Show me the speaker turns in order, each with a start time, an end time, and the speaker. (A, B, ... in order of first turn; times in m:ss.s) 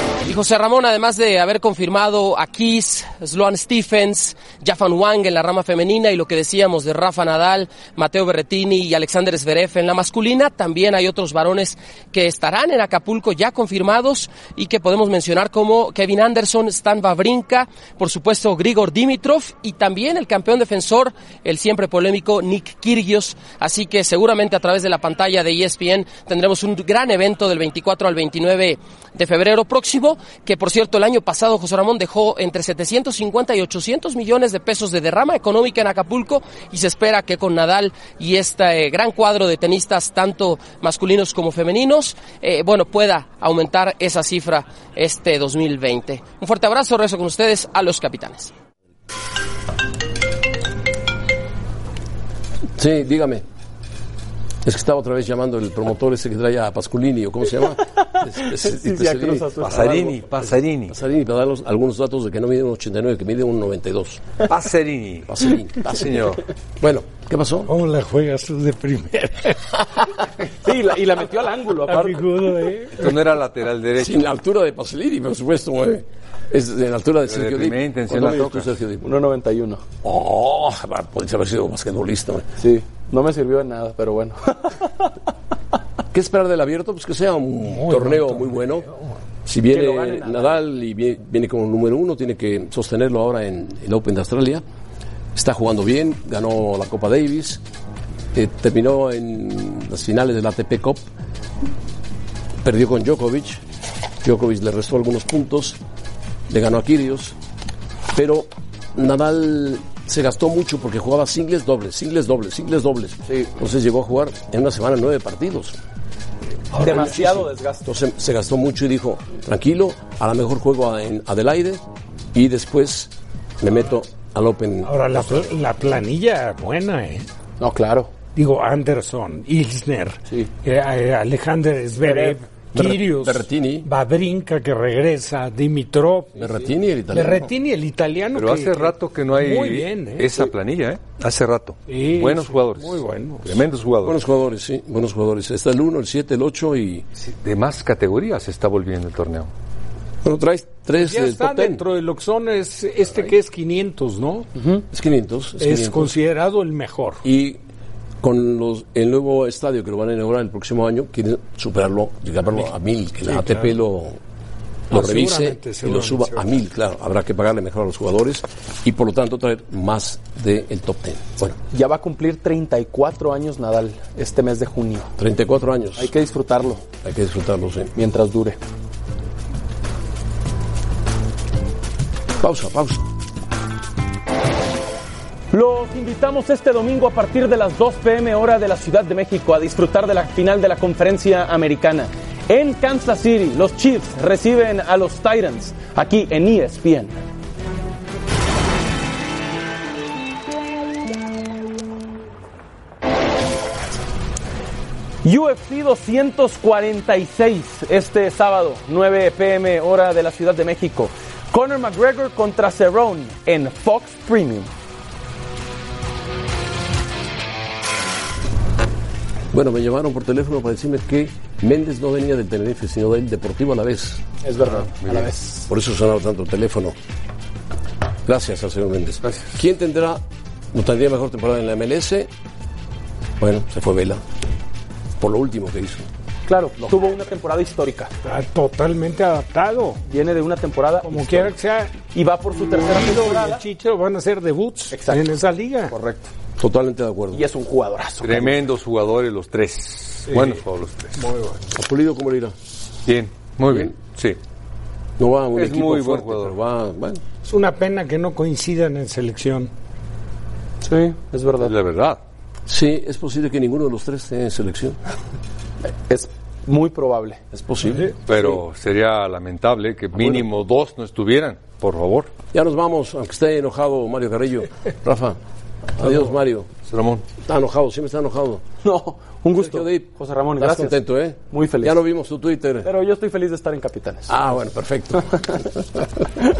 0:00.2-0:48.5 A
0:52.8-0:53.4 B
0:54.6-0:59.5 B
0:57.7-1:00.3 C
0:59.6-1:00.9 D
1:00.9-1:04.3 B
1:04.5-1:05.3 D
1:05.2-1:07.7 B
1:05.8-1:06.4 D
1:07.6-1:09.7 E
1:10.6-1:12.3 C
1:11.9-1:13.1 E
1:12.9-1:14.3 D
1:14.0-1:19.0 B
1:17.3-1:18.7 D
1:19.0-1:19.8 C
1:20.0-1:22.5 B
1:22.6-1:25.1 C
1:26.1-1:28.8 B
1:27.7-1:29.1 E
1:29.4-1:34.6 B
1:29.7-1:30.6 C
1:35.3-1:37.6 B
1:38.3-1:41.0 B
1:42.6-1:43.6 B
1:44.2-1:45.8 B
1:46.5-1:47.4 B
1:48.1-1:55.7 B
1:56.7-1:57.3 E
1:56.8-1:57.9 C
1:56.9-2:05.5 B
2:04.8-2:07.2 E
2:07.6-2:08.1 C
2:08.4-2:16.6 E
2:12.0-2:12.4 C
2:12.7-2:13.9 B
2:16.4-2:17.5 B
2:17.1-2:20.3 E
2:18.3-2:24.2 D
2:21.9-2:23.6 E
2:24.0-2:27.0 B
2:27.2-2:29.5 D
2:30.2-2:31.8 B
2:31.0-2:34.5 E
2:34.6-2:34.8 C
2:34.9-2:36.1 B
2:35.6-2:37.2 E
2:37.2-2:37.6 B
2:38.2-2:44.2 B
2:43.3-2:43.8 E
2:44.9-2:51.6 B
2:44.9-2:46.5 E
2:51.7-2:55.1 C
2:55.2-2:56.1 B
2:56.0-2:56.8 C
2:57.0-2:57.9 B
2:58.0-2:58.6 C
3:02.4-3:03.0 B
3:05.5-3:17.2 C
3:25.2-3:34.7 C
3:39.5-3:44.2 B
3:44.4-3:45.7 C
3:45.7-3:46.9 B
3:48.2-3:50.2 B
3:50.7-3:52.3 B
3:53.4-3:54.2 B
3:55.2-3:56.1 B
3:56.4-3:58.1 C
3:58.2-4:00.0 E
4:00.0-4:01.5 C
4:01.0-4:02.0 E
4:02.1-4:03.6 C
4:02.8-4:05.9 E
4:04.9-4:05.3 C
4:05.9-4:06.3 C
4:06.6-4:07.4 B
4:07.3-4:08.6 C
4:08.2-4:11.2 D
4:11.2-4:11.6 E
4:11.7-4:12.5 B
4:13.0-4:14.4 D
4:15.2-4:17.2 B
4:15.5-4:16.5 D
4:17.4-4:19.7 E
4:20.8-4:21.7 C
4:21.6-4:22.2 D
4:22.7-4:25.0 B
4:26.1-4:27.4 C
4:27.5-4:28.0 B
4:28.2-4:32.3 D
4:32.5-4:35.4 B
4:36.0-4:36.7 B
4:36.8-4:37.2 D
4:37.4-4:38.6 B
4:38.8-4:41.0 C
4:39.5-4:42.9 B
4:41.5-4:42.0 C
4:42.8-4:44.4 C
4:44.3-4:45.8 B